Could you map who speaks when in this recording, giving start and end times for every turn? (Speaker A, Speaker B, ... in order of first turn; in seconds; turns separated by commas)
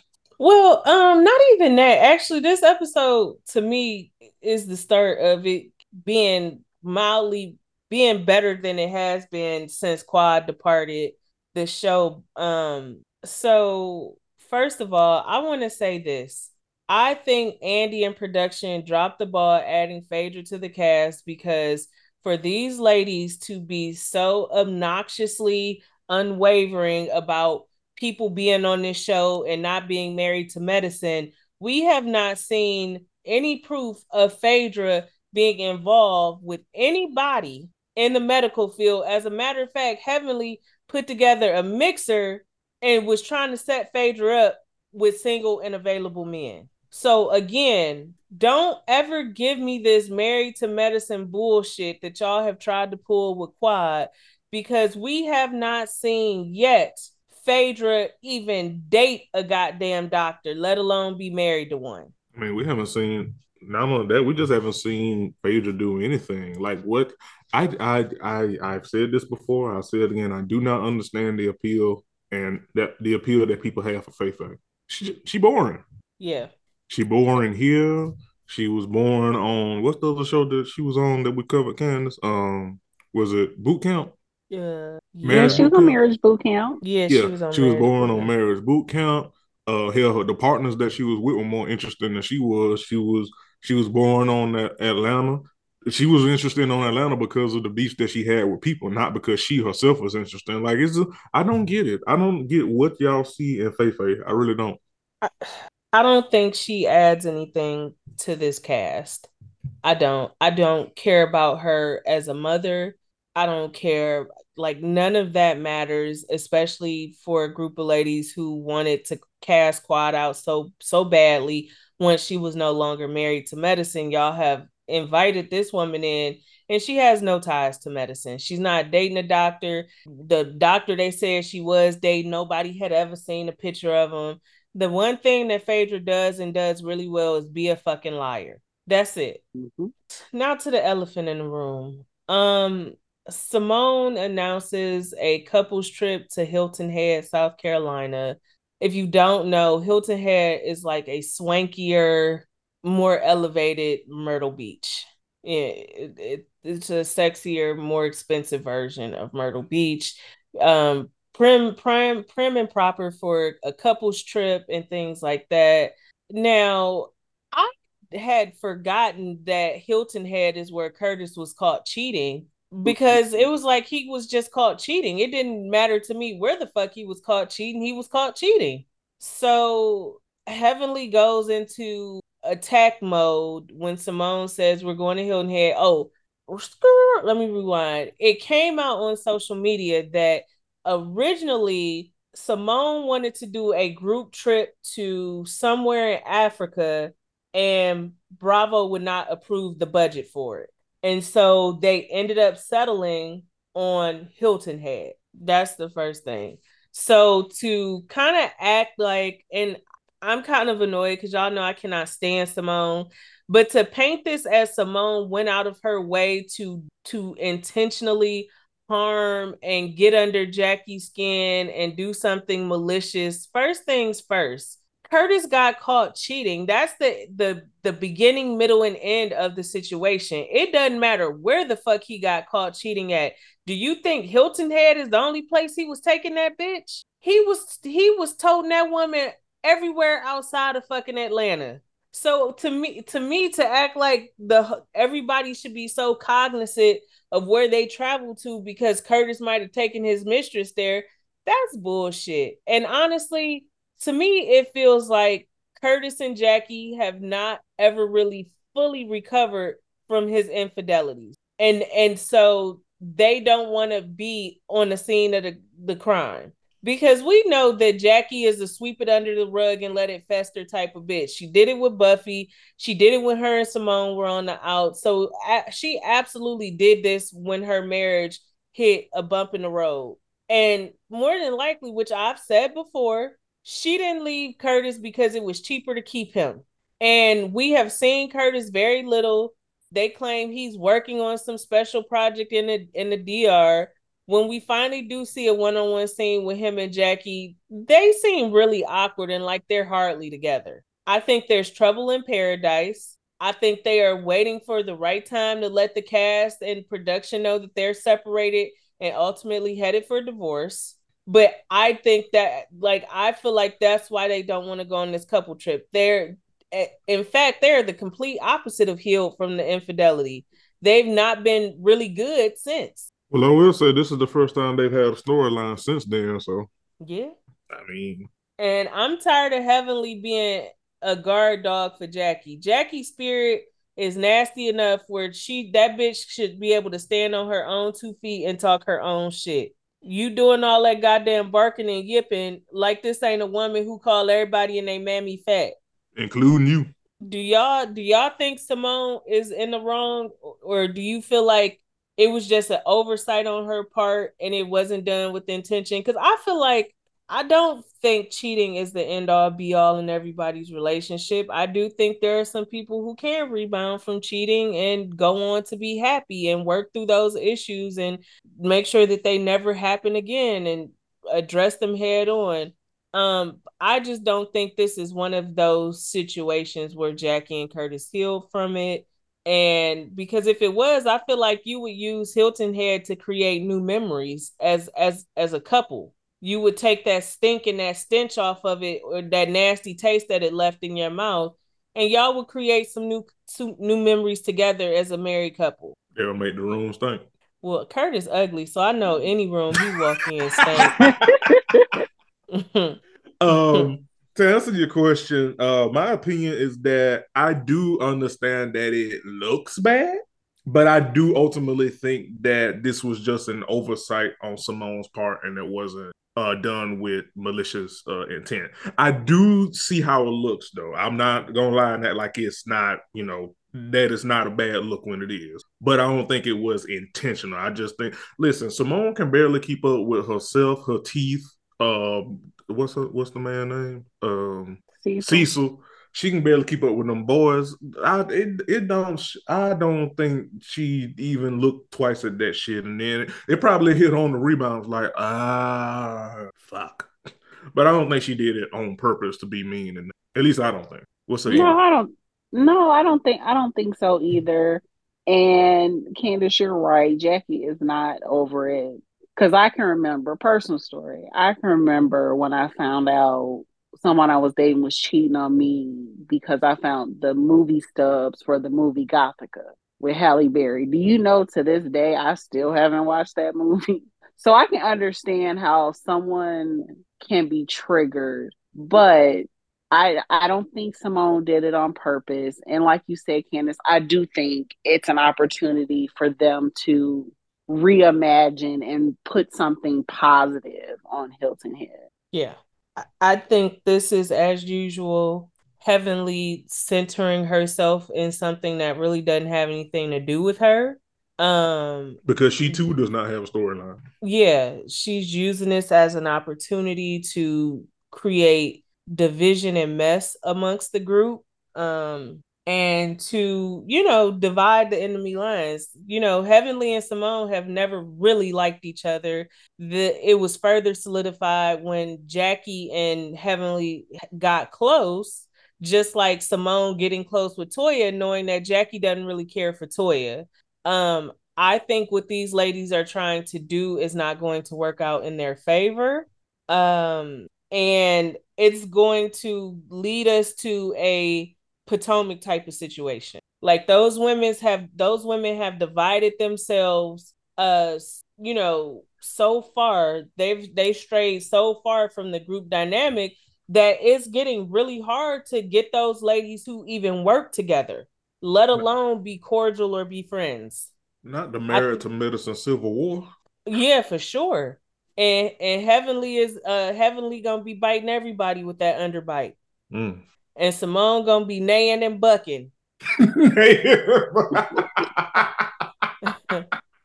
Speaker A: 0.4-62.1, Speaker B: 62.3-75.8, Speaker A: 76.2-76.5, Speaker B: 76.9-84.1, Speaker A: 84.5-85.7, Speaker B: 85.2-86.0, Speaker C: 85.3-86.8, Speaker A: 86.8-88.3, Speaker B: 87.1-104.8, Speaker A: 105.2-109.3, Speaker A: 109.8-139.4, Speaker C: 139.6-139.9, Speaker A: 140.1-323.1, Speaker C: 172.9-173.5, Speaker B: 323.3-326.7, Speaker A: 327.0-327.4, Speaker B: 327.7-328.3, Speaker A: 328.6-345.8, Speaker B: 346.2-346.9, Speaker A: 347.2-396.0, Speaker B: 396.2-397.2, Speaker A: 397.6-401.0, Speaker B: 401.0-401.8, Speaker C: 401.0-401.9, Speaker A: 402.5-403.0, Speaker B: 403.4-447.1, Speaker A: 403.5-403.9, Speaker C: 434.9-435.5, Speaker B: 447.7-451.8, Speaker C: 451.5-492.0, Speaker A: 492.3-502.8, Speaker B: 502.3-504.0, Speaker A: 504.2-560.9, Speaker B: 561.2-563.3, Speaker A: 561.7-562.0, Speaker A: 563.7-569.6, Speaker B: 569.9-570.2, Speaker A: 570.6-572.7, Speaker B: 573.2-576.1, Speaker A: 576.2-576.6